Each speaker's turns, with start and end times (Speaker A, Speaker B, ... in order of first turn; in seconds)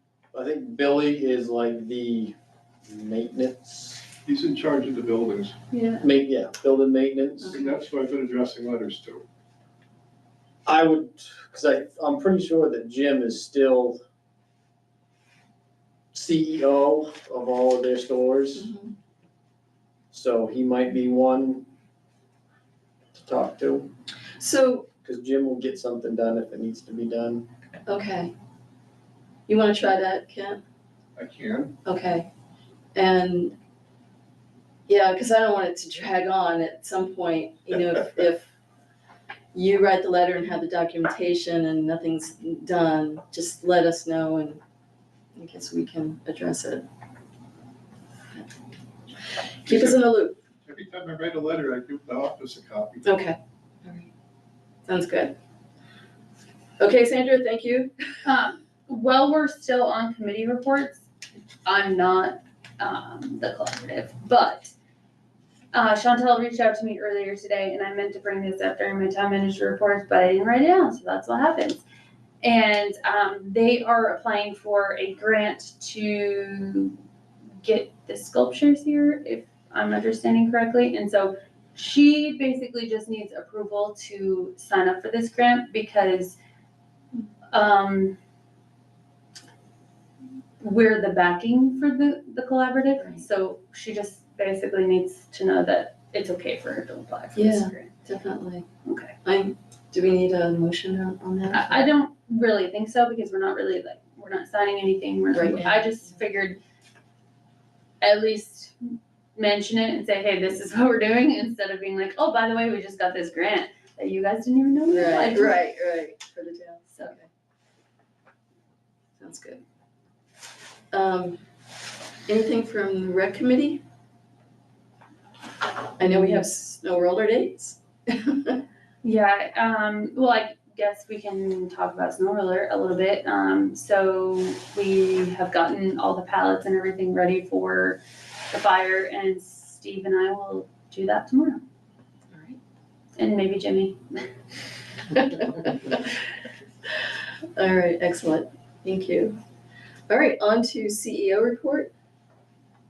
Speaker A: 0.3-2.3, 2.9-4.0, 6.0-7.6, 10.7-14.0, 16.1-18.7, 20.1-21.7, 23.1-23.9, 25.0-27.4
Speaker B: 4.3-5.5, 7.5-9.2, 31.2-31.7, 49.7-50.0, 50.7-53.1
Speaker C: 5.7-6.0, 58.2-61.0, 61.6-64.7, 65.7-71.8, 72.4-77.0, 77.6-86.4, 87.5-88.2, 90.6-97.9, 98.8-99.1, 101.5-106.6, 108.0-115.7, 129.0-141.6, 143.2-144.3
Speaker D: 7.4-7.8, 18.6-18.9, 24.4-24.9, 27.9-28.3, 29.5-30.6, 31.8-32.3, 32.9-33.5, 34.9-38.5, 39.5-44.6, 45.4-46.8, 49.6-50.4, 53.0-54.1, 54.9-55.3, 56.8-57.9, 93.0-93.2, 97.3-98.7, 99.2-101.9, 105.3-106.0, 114.9-117.3, 119.2-119.6, 120.9-121.4, 122.3-123.8, 126.0-128.6, 142.3-142.6, 145.2-146.2, 147.6-149.4, 150.1-151.9